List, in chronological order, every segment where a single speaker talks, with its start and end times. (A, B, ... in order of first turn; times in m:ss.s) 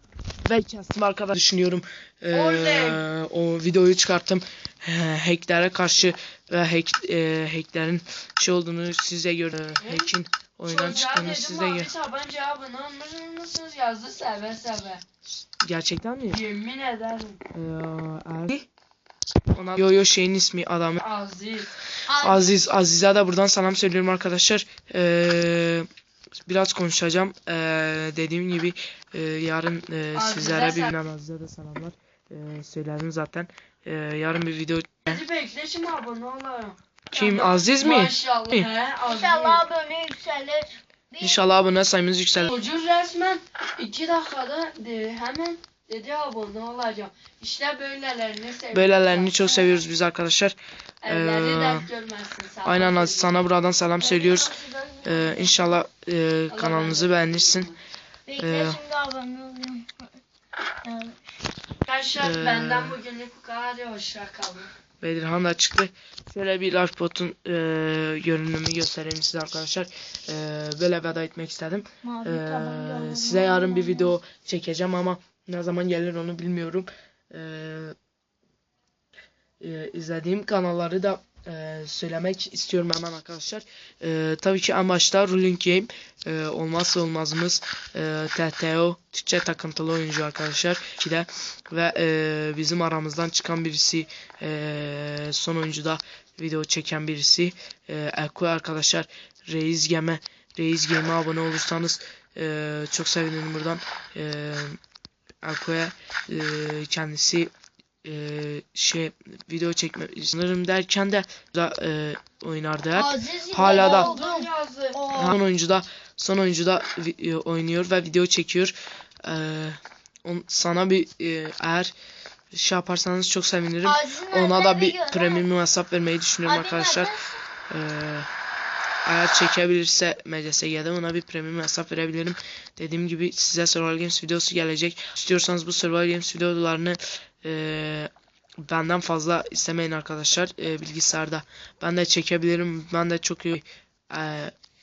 0:00.4-0:11.9 A
0:02.3-0:03.0 B
0:09.8-0:10.1 B
0:10.7-0:15.0 B
0:15.6-0:16.4 A
0:16.3-0:17.4 B
0:17.5-0:18.7 A
0:19.5-0:21.0 A
0:21.0-0:21.7 B
0:22.1-0:22.6 C
0:22.1-0:25.9 A
0:26.4-0:35.2 A
0:30.1-0:30.9 B
0:35.0-0:39.7 B
0:37.1-0:38.7 A
0:39.0-0:41.4 C
0:41.2-0:42.5 A
0:42.4-0:49.8 B
0:48.7-0:51.9 A
0:51.0-0:53.4 B
0:52.6-0:57.7 A
0:54.0-0:55.8 C
0:56.5-0:57.8 B
0:58.2-1:00.1 C
0:58.3-0:58.8 A
1:00.8-1:01.2 C
1:01.8-1:04.7 B
1:02.2-1:03.0 A
1:05.0-1:18.0 A
1:12.0-1:14.2 C
1:19.6-1:44.8 A
1:45.4-1:47.5 A
1:48.0-1:54.1 A
1:52.9-1:55.4 C
1:53.6-1:55.1 B
1:55.1-2:01.9 A
2:02.5-2:07.1 A
2:03.8-2:05.5 C
2:06.4-2:07.4 C
2:07.7-2:08.3 A
2:09.0-2:18.1 A
2:18.6-2:24.5 A